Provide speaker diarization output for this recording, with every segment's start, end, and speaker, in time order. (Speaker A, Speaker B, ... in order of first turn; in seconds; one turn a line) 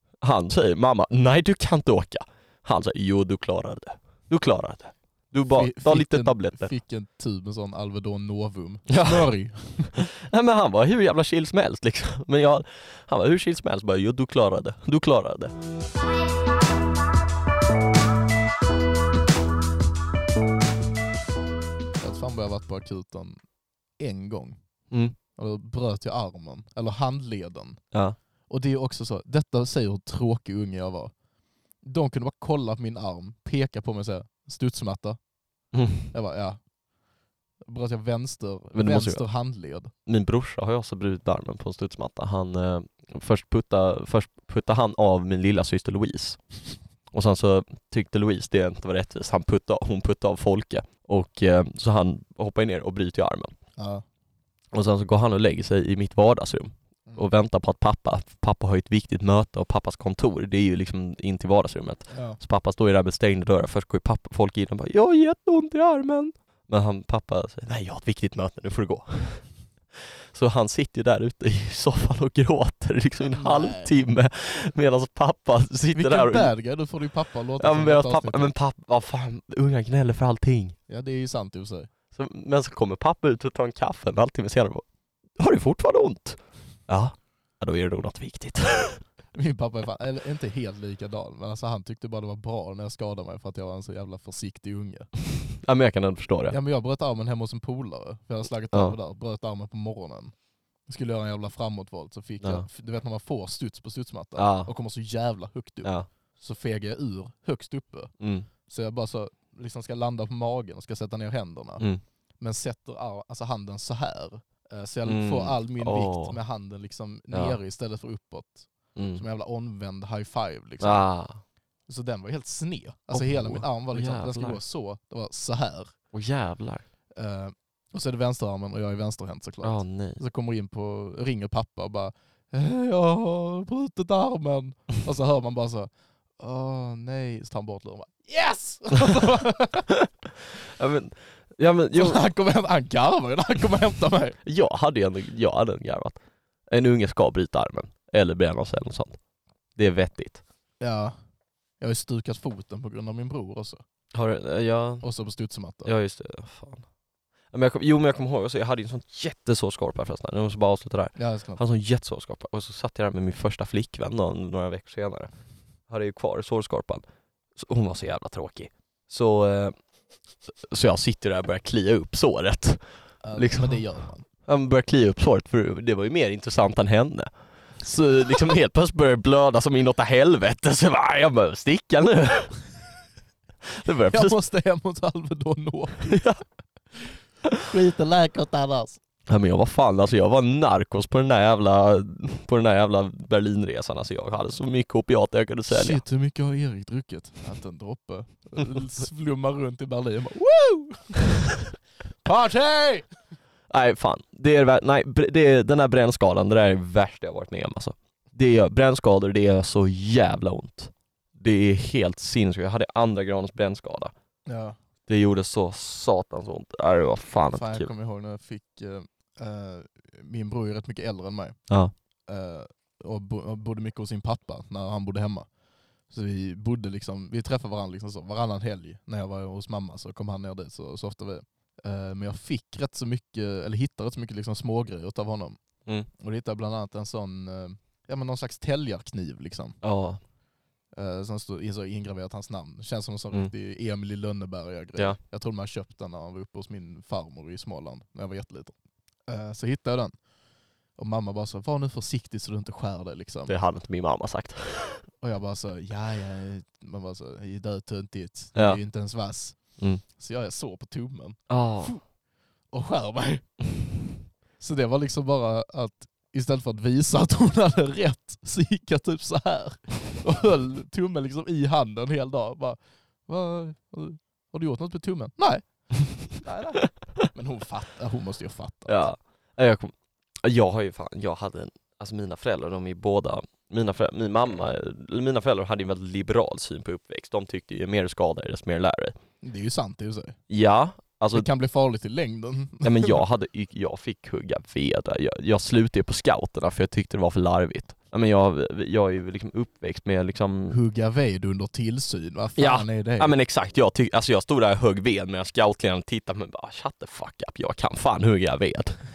Speaker A: 0.2-6.7
Speaker B: 5.5-9.9
Speaker A: 8.9-9.3
Speaker A: 10.0-15.5
Speaker B: 22.0-23.4
Speaker B: 24.0-24.6
Speaker A: 24.9-25.1
Speaker B: 25.4-27.8
Speaker A: 27.9-28.2
Speaker B: 28.5-31.1
Speaker B: 31.8-35.2
Speaker A: 35.7-36.1
Speaker B: 36.1-36.6
Speaker B: 37.6-39.9
Speaker A: 38.7-39.2
Speaker A: 40.0-46.4
Speaker A: 47.1-53.5
Speaker B: 53.8-54.0
Speaker A: 54.7-69.5
Speaker B: 62.1-62.4
Speaker A: 70.3-76.5
Speaker B: 73.3-73.9
Speaker B: 75.9-78.5
Speaker A: 77.6-80.8
Speaker B: 80.9-81.9
Speaker A: 82.1-84.8
Speaker A: 85.4-89.0
Speaker B: 89.3-95.1
Speaker A: 95.6-96.5
Speaker B: 96.5-100.3
Speaker B: 100.8-108.1
Speaker A: 102.4-102.7
Speaker A: 104.3-104.7
Speaker A: 108.2-108.5
Speaker B: 108.7-111.9
Speaker B: 112.4-121.0
Speaker A: 115.0-116.4
Speaker A: 117.3-117.6
Speaker A: 118.9-119.2
Speaker A: 120.8-121.4
Speaker B: 121.9-125.9
Speaker A: 123.1-124.6
Speaker A: 126.1-126.8
Speaker B: 127.2-139.9
Speaker A: 129.6-130.2
Speaker A: 140.6-142.2
Speaker B: 141.9-144.4
Speaker A: 144.4-149.2
Speaker A: 149.8-150.4
Speaker B: 150.8-151.1
Speaker B: 151.8-153.8
Speaker A: 154.1-155.0
Speaker B: 155.0-155.9
Speaker A: 155.8-156.8
Speaker A: 157.5-165.3
Speaker B: 161.2-161.6
Speaker A: 165.9-167.0
Speaker A: 167.5-169.7
Speaker A: 170.5-172.8
Speaker B: 173.2-174.2
Speaker A: 173.3-173.8
Speaker A: 174.4-182.5
Speaker A: 183.7-184.3
Speaker B: 184.1-186.2
Speaker A: 186.1-186.4
Speaker B: 187.6-189.0
Speaker A: 189.3-196.0
Speaker B: 195.7-201.6
Speaker B: 202.2-203.1
Speaker A: 203.7-214.1
Speaker B: 214.5-214.8
Speaker A: 215.1-217.9
Speaker B: 217.5-221.6
Speaker B: 222.3-225.5
Speaker B: 226.1-235.6
Speaker B: 236.2-239.8
Speaker A: 239.8-240.2
Speaker B: 240.9-248.7
Speaker B: 249.3-250.2
Speaker B: 250.9-253.5
Speaker A: 253.5-255.0
Speaker B: 255.2-262.0
Speaker A: 261.5-262.0
Speaker B: 262.7-263.6
Speaker B: 264.6-279.1
Speaker A: 278.9-289.1
Speaker B: 289.4-290.4
Speaker A: 290.5-291.5
Speaker B: 291.3-293.2
Speaker A: 292.8-300.8
Speaker B: 300.7-303.3
Speaker A: 302.6-309.0